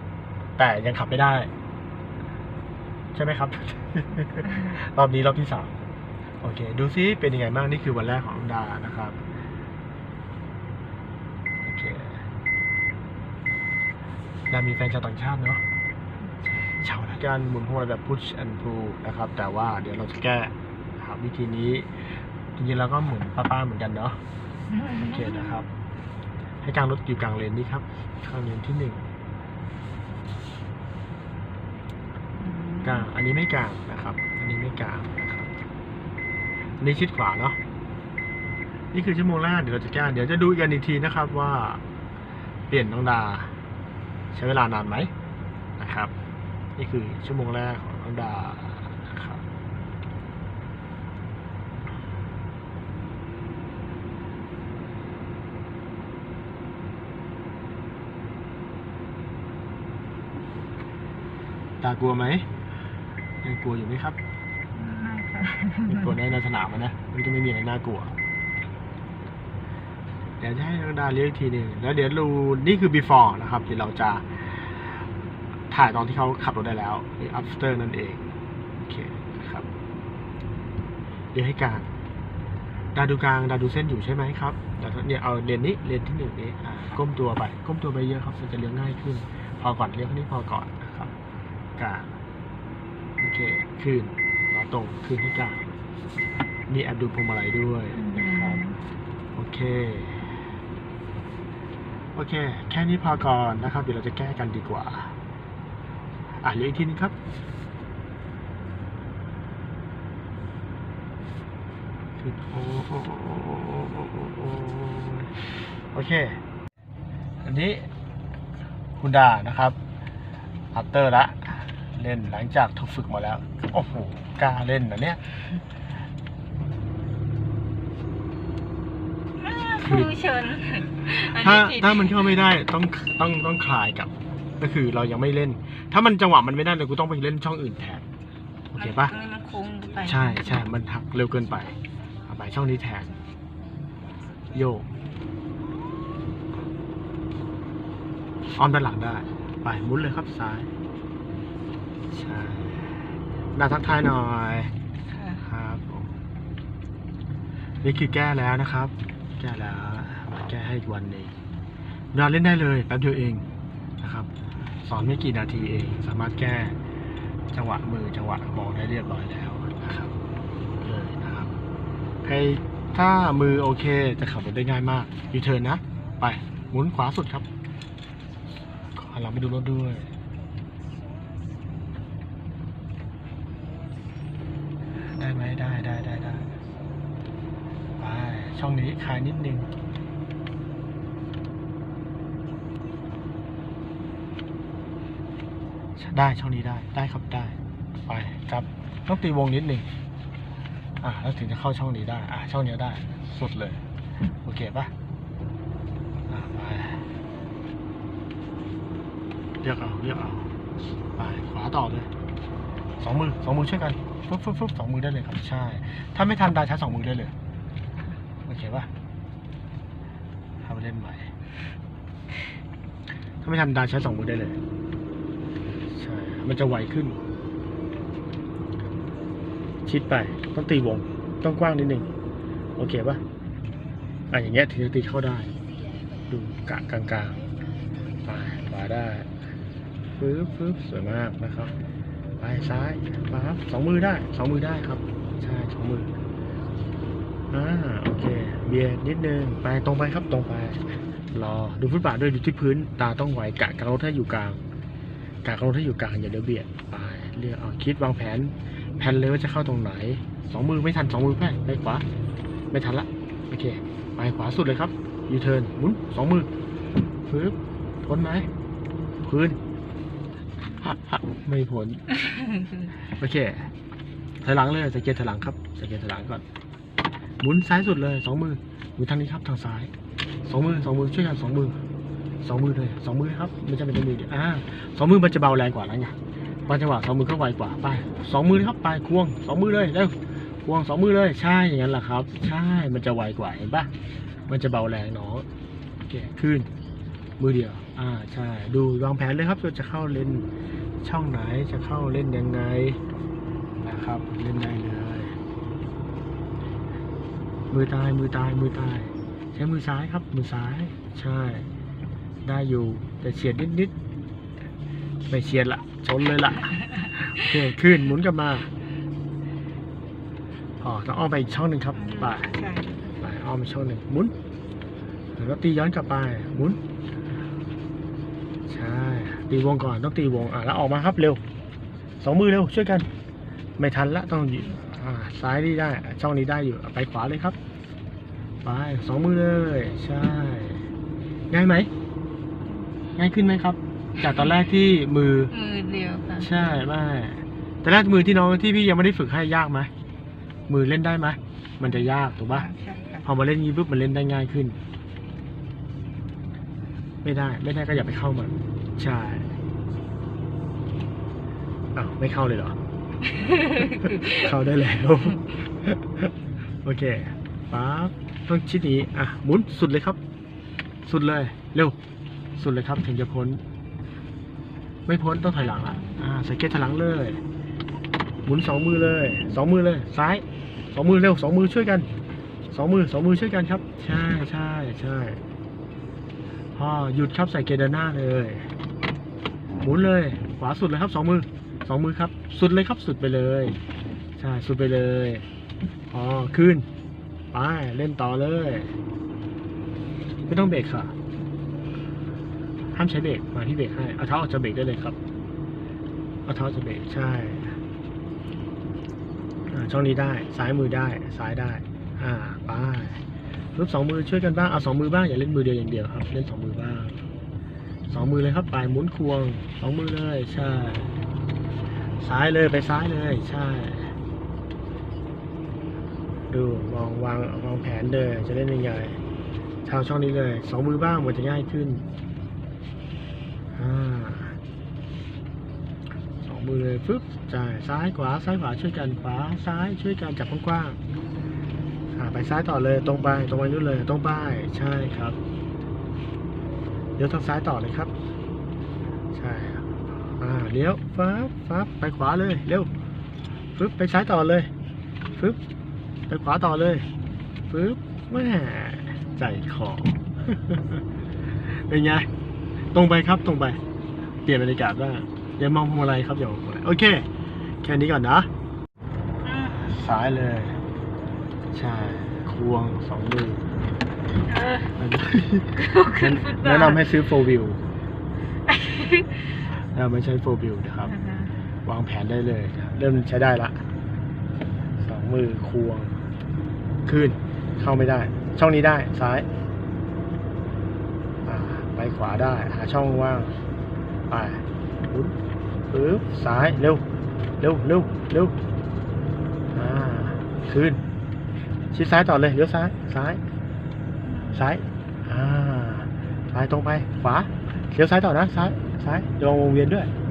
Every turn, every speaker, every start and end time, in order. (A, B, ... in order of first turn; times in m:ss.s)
0:00.6-0:01.5 A
0:03.1-0:05.7 A
0:06.4-0:09.2 A
0:11.6-0:12.2 A
0:14.5-0:15.6 A
0:16.6-0:24.2 A
0:24.7-0:25.6 B
0:25.0-0:25.7 A
0:26.6-0:29.0 A
0:32.4-0:33.1 B
0:32.8-0:35.5 A
0:36.8-0:37.6 A
0:38.9-0:41.8 A
0:42.7-0:43.5 A
0:44.3-0:45.1 A
0:45.8-0:46.1 A
0:46.8-0:49.4 A
1:01.8-1:02.5 A
1:03.4-1:04.2 A
1:04.7-1:06.1 B
1:05.8-1:08.1 A
1:10.4-1:15.0 A
1:15.7-1:19.6 A
1:21.3-1:21.9 A
1:22.9-1:31.1 A
1:31.8-1:32.1 A
1:33.2-1:35.6 A
1:36.7-1:38.6 A
1:37.9-1:38.8 B
1:39.3-1:40.3 A
1:42.1-1:45.1 A
1:46.4-1:47.1 A
1:52.2-1:56.4 A
1:57.4-1:57.9 A
1:59.0-1:59.8 A
2:00.7-2:05.4 A
2:09.4-2:12.3 B
2:09.8-2:10.1 A
2:11.0-2:18.0 A
2:18.7-2:19.1 A
2:18.7-2:20.6 B
2:20.0-2:21.8 A
2:22.3-2:23.1 A
2:24.5-2:24.9 A
2:28.6-2:30.7 A
2:32.1-2:32.9 A
2:33.5-2:34.7 A
2:35.1-2:35.4 B
2:35.4-2:36.2 A
2:37.8-2:41.3 A
2:42.1-2:43.4 A
2:44.0-2:44.3 A
2:44.8-2:46.8 A
2:47.5-2:50.2 A
2:50.8-2:51.6 A
2:52.2-2:57.4 A
2:58.9-3:00.1 A
3:05.1-3:06.4 A
3:08.0-3:09.7 A
3:16.0-3:19.9 A
3:21.0-3:23.8 A
3:24.4-3:24.9 A
3:26.3-3:27.1 A
3:29.6-3:32.1 A
3:33.0-3:37.3 A
3:38.4-3:38.9 A
3:40.6-3:41.3 A
3:43.4-3:44.6 A
3:45.9-3:47.2 A
3:49.8-3:52.1 A
3:52.8-3:53.2 A
3:54.3-3:55.5 A
3:56.3-3:57.4 A
3:58.2-3:59.3 A
4:00.2-4:01.7 A
4:02.4-4:06.1 A
4:07.5-4:14.6 A
4:15.4-4:22.0 A
4:22.7-4:26.5 A
4:27.3-4:28.5 A
4:29.2-4:29.6 A
4:30.8-4:32.0 A
4:33.2-4:33.7 A
4:34.4-4:36.4 A
4:37.4-4:39.9 A
4:40.4-4:41.8 A
4:42.4-4:53.9 A
4:54.5-4:55.4 A
4:56.1-4:56.7 A
4:57.4-5:00.4 A
5:01.0-5:03.0 A
5:03.8-5:05.3 A
5:07.7-5:11.7 A
5:12.4-5:13.9 A
5:15.3-5:18.7 A
5:20.8-5:22.5 A
5:21.9-5:23.1 B
5:23.2-5:24.3 A
5:25.4-5:26.8 A
5:28.7-5:31.4 A
5:32.2-5:33.1 A
5:33.8-5:37.6 A
5:38.6-5:40.8 A
5:41.5-5:41.9 A
5:42.6-5:42.9 B
5:43.2-5:45.5 A
5:45.5-5:46.5 B
5:46.4-5:49.9 A
5:50.7-5:52.7 A
5:51.8-5:53.2 B
5:53.2-5:54.8 A
5:57.2-5:59.5 A
6:01.9-6:02.8 A
6:03.5-6:04.3 B
6:04.0-6:06.3 A
6:06.8-6:10.2 A
6:11.0-6:12.0 A
6:12.6-6:13.6 A
6:15.0-6:17.4 A
6:15.5-6:16.2 B
6:18.4-6:22.1 A
6:22.7-6:25.4 A
6:26.7-6:28.7 A
6:29.8-6:33.8 A
6:34.4-6:35.4 A
6:36.1-6:36.8 A
6:37.5-6:38.9 A
6:40.4-6:41.1 A
6:42.9-6:45.2 A
6:46.4-6:47.8 A
6:49.7-6:53.2 A
6:53.7-6:57.3 A
6:58.1-7:01.2 A
7:02.2-7:04.1 A
7:06.5-7:09.2 A
7:09.8-7:12.0 A
7:13.7-7:14.6 A
7:16.4-7:21.0 A
7:22.1-7:25.4 A
7:27.2-7:28.1 A
7:29.3-7:32.9 A
7:33.7-7:34.7 A
7:36.3-7:37.0 A
7:37.7-7:41.0 A
7:41.7-7:42.3 A
7:42.9-7:43.8 A
7:44.4-7:47.2 A
7:47.8-7:48.5 A
7:49.4-7:49.8 B
7:49.8-7:50.8 A
7:51.7-7:53.6 A
7:54.5-7:54.9 B
7:55.0-7:57.8 A
7:55.8-7:57.1 B
7:58.6-7:59.6 B
7:59.9-8:01.1 A
8:01.0-8:01.5 B
8:01.8-8:03.8 A
8:05.0-8:06.2 A
8:07.0-8:09.5 A
8:11.4-8:13.6 A
8:14.3-8:15.3 A
8:15.9-8:17.0 A
8:17.6-8:18.5 A
8:19.7-8:21.0 A
8:21.9-8:23.4 A
8:24.2-8:24.6 B
8:24.5-8:30.1 A